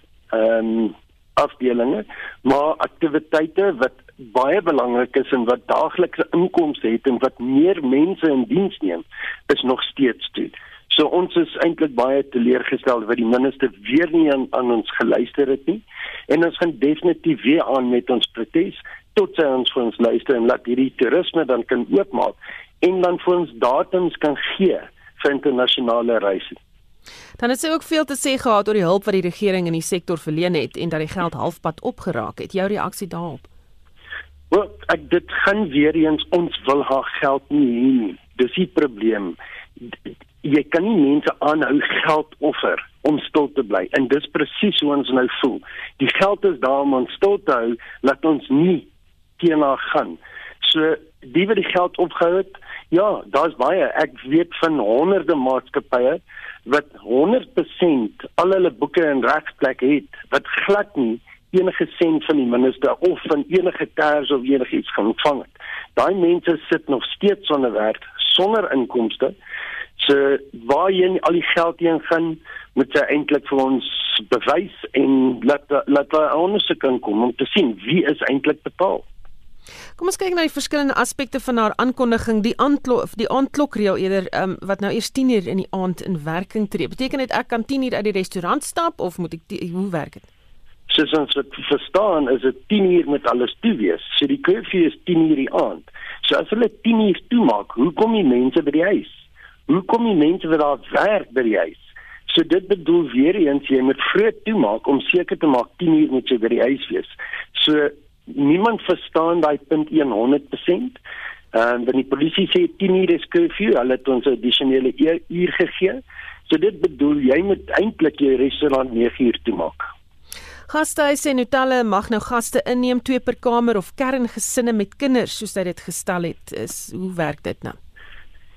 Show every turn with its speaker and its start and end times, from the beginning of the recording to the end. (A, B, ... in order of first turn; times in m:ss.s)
0:00.3-0:26.6 A
0:27.4-0:33.5 B
0:34.5-1:09.4 A
1:10.0-1:19.0 A
1:20.0-1:30.3 B
1:30.9-1:51.0 A
1:51.5-1:59.8 A
2:00.7-2:07.8 B